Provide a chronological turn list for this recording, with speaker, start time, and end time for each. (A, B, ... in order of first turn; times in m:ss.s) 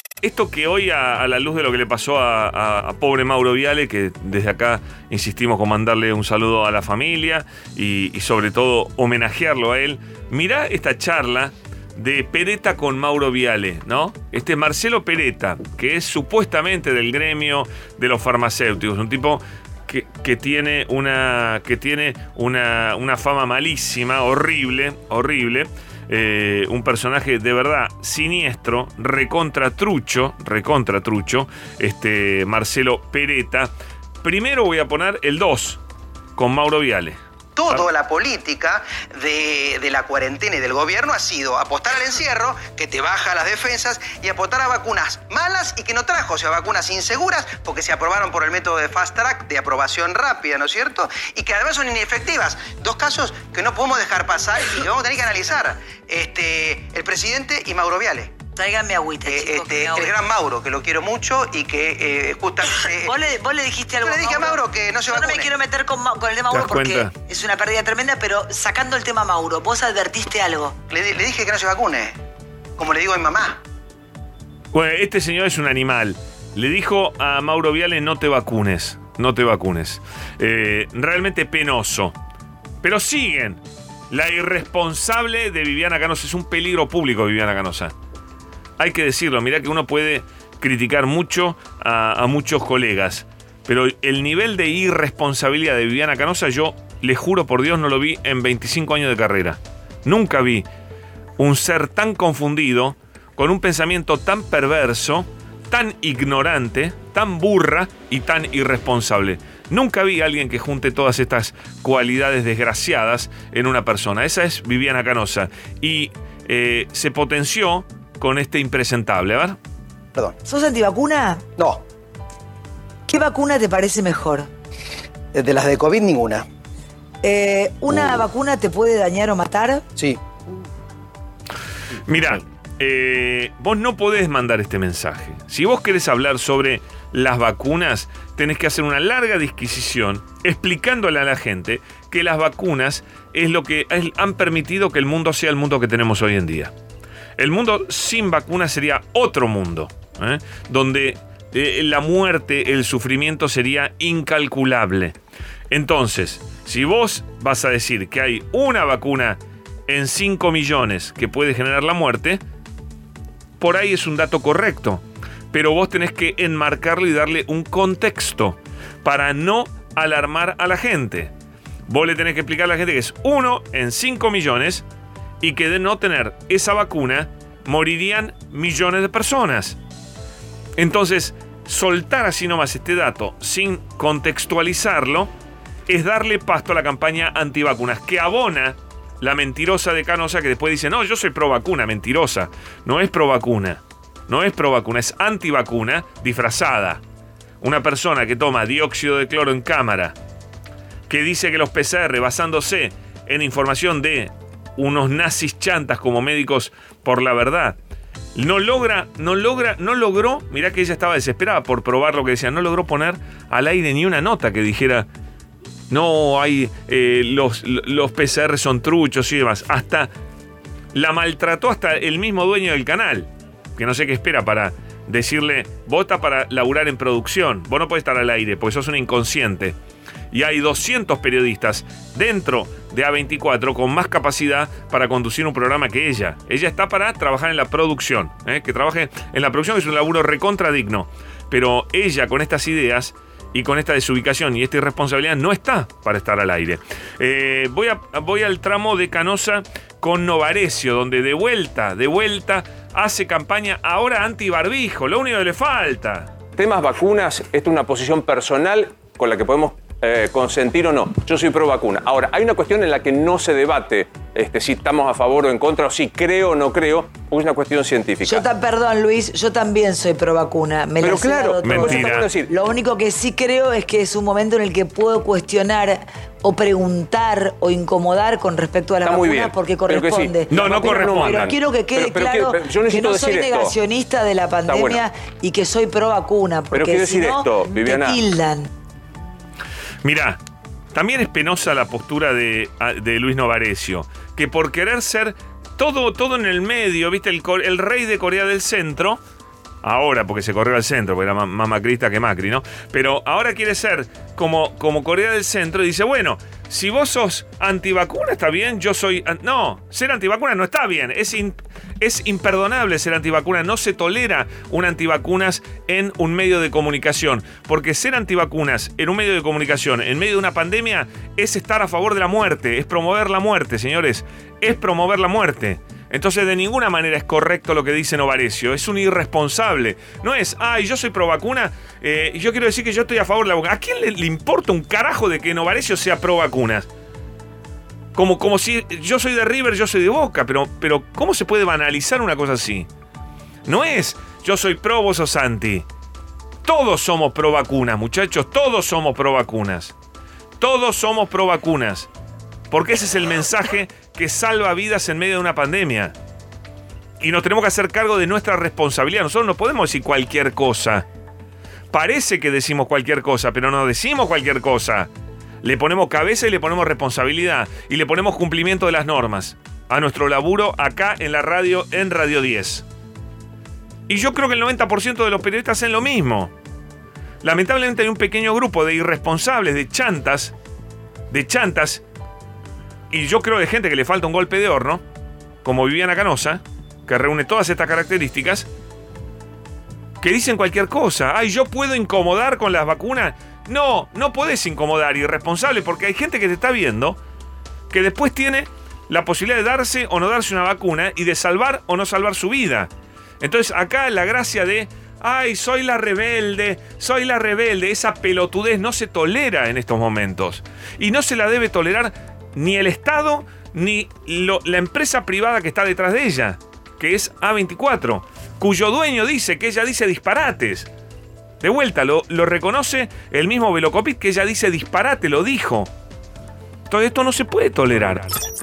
0:00.2-0:33.7 A
0:34.2-0:35.8 A
0:36.4-0:37.2 A
0:37.6-0:58.3 B
0:58.5-1:00.1 C
0:59.3-1:03.1 B
1:02.9-1:10.7 C
1:04.0-1:05.5 B
1:06.5-1:07.1 A
1:10.9-1:12.1 B
1:12.8-1:13.6 B
1:14.7-1:22.1 A
1:22.8-1:27.9 A
1:28.8-1:40.6 A
1:41.4-1:59.6 A
2:00.4-2:01.4 C
2:03.1-2:04.5 C
2:05.3-2:06.4 B
2:07.2-2:09.8 C
2:12.0-2:26.7 A
2:27.4-2:35.2 A
2:35.7-2:42.4 A
2:43.6-2:51.3 A
2:51.9-2:54.8 A
2:55.4-2:59.8 A
3:00.8-3:05.3 A
3:05.9-3:17.0 A
3:17.6-3:20.1 A
3:21.1-3:27.8 A
3:28.3-3:35.1 A
3:35.9-3:40.1 A
3:40.9-3:49.8 A
3:50.3-4:16.3 A
4:16.6-4:28.4 D
4:28.2-4:48.7 C
4:31.0-4:32.4 D
4:31.6-4:32.3 A
4:39.0-4:43.7 D
4:40.6-4:41.4 A
4:44.7-4:45.0 D
4:46.7-4:48.2 D
4:50.0-4:50.4 A
4:50.9-4:59.2 A
4:59.8-5:36.9 A
5:38.1-5:42.9 A
5:43.6-5:45.8 A
5:46.6-5:49.9 A
5:50.6-5:52.1 A
5:52.7-5:56.1 A
5:57.2-6:01.0 A
6:01.9-6:05.1 A
6:05.6-6:12.8 A
6:14.1-6:16.5 A
6:17.4-6:20.5 A
6:21.3-6:22.0 A
6:23.1-6:25.0 A
6:25.6-6:28.7 A
6:30.2-6:37.2 A
6:37.9-6:42.9 A
6:43.4-7:00.9 A
7:01.6-7:05.9 A
7:06.9-7:08.3 A